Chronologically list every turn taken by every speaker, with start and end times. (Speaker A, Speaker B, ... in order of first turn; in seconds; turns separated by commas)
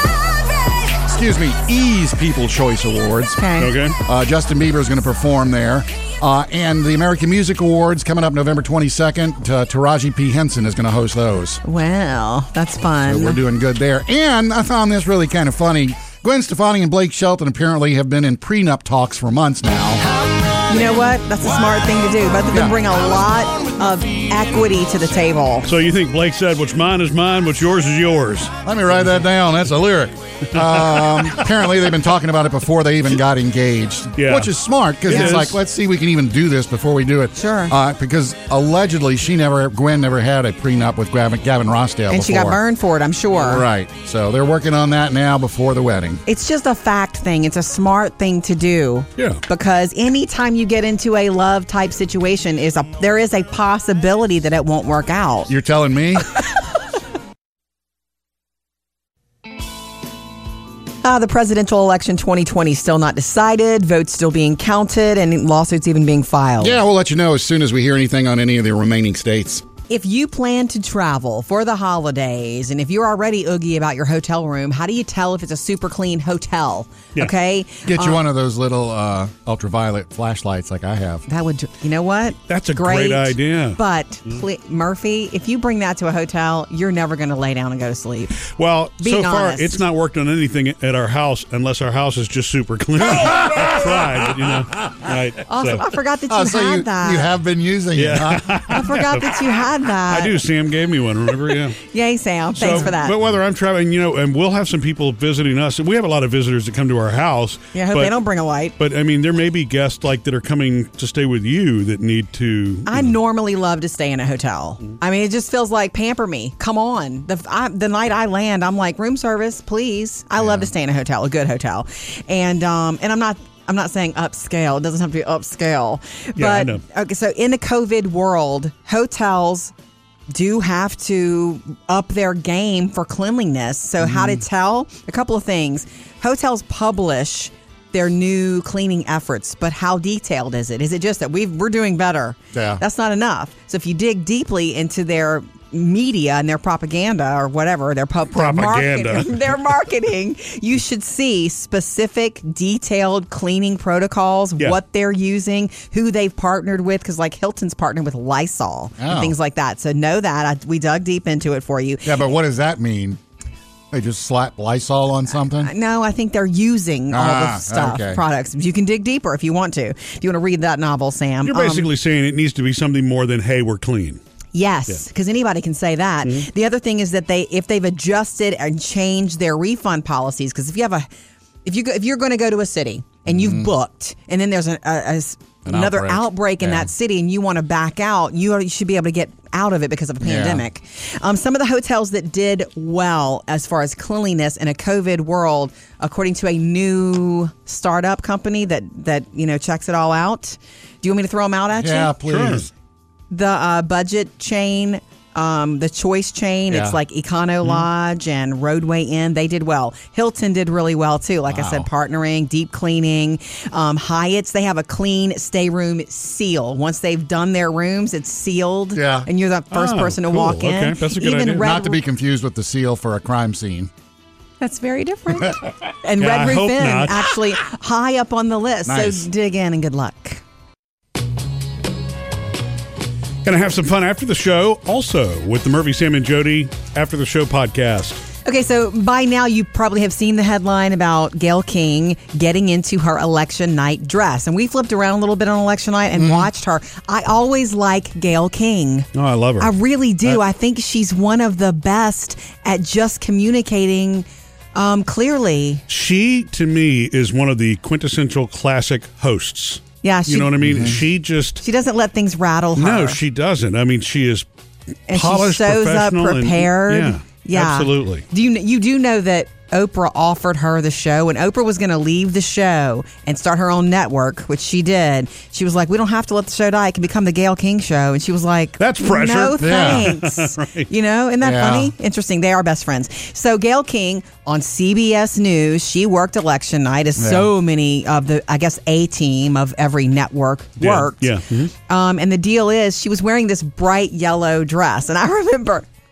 Speaker A: 1.0-3.4, Speaker B: 3.4-3.8, Speaker C: 3.6-4.0, Speaker A: 4.0-11.6, Speaker B: 11.6-13.4, Speaker A: 13.0-20.1, Speaker B: 20.7-25.7, Speaker A: 22.5-22.8, Speaker C: 25.6-28.5, Speaker A: 28.6-42.6, Speaker C: 34.2-34.5, Speaker C: 35.1-35.6, Speaker B: 35.1-35.4, Speaker B: 37.4-37.8, Speaker B: 42.1-43.7, Speaker A: 43.4-46.2, Speaker B: 46.3-55.5, Speaker A: 55.5-56.3, Speaker B: 61.0-66.8, Speaker A: 66.6-69.6, Speaker B: 69.9-78.2, Speaker A: 77.9-81.2, Speaker B: 81.3-88.4, Speaker C: 82.5-84.4, Speaker C: 88.5-95.9, Speaker B: 89.0-89.8, Speaker A: 93.3-94.2, Speaker B: 93.3-93.7, Speaker B: 95.5-97.3, Speaker A: 96.3-98.7, Speaker C: 98.0-99.4, Speaker B: 98.7-100.4, Speaker C: 100.1-101.8, Speaker B: 101.9-103.2, Speaker C: 102.5-108.2, Speaker B: 107.7-108.8, Speaker C: 108.8-113.1, Speaker B: 112.9-129.7, Speaker C: 126.4-126.8, Speaker B: 130.3-162.2, Speaker A: 142.5-142.8, Speaker C: 148.3-149.4, Speaker A: 159.0-159.3, Speaker A: 162.1-163.2, Speaker A: 163.9-165.7, Speaker B: 165.6-171.9, Speaker A: 167.1-168.2, Speaker C: 171.4-174.2, Speaker B: 174.5-181.1, Speaker B: 181.7-202.2, Speaker A: 183.3-183.7, Speaker A: 185.7-186.9, Speaker A: 190.2-190.6, Speaker A: 201.7-202.7, Speaker C: 202.3-202.7, Speaker B: 203.3-222.0, Speaker A: 206.7-207.0, Speaker A: 211.5-211.9, Speaker A: 218.9-219.3, Speaker C: 219.7-221.7, Speaker A: 221.6-223.9, Speaker B: 224.6-230.4, Speaker C: 226.2-227.3, Speaker A: 228.9-229.3, Speaker C: 233.4-238.2, Speaker B: 238.4-255.8, Speaker A: 246.2-246.5, Speaker C: 249.1-249.8, Speaker C: 255.9-261.6, Speaker B: 260.0-260.8, Speaker A: 260.6-261.0, Speaker B: 261.6-263.2, Speaker C: 262.8-264.5, Speaker B: 265.1-291.3, Speaker C: 265.1-268.2, Speaker C: 278.8-280.9, Speaker A: 279.6-280.1, Speaker A: 281.4-281.9, Speaker A: 287.2-287.5, Speaker C: 290.8-291.7, Speaker B: 291.9-295.9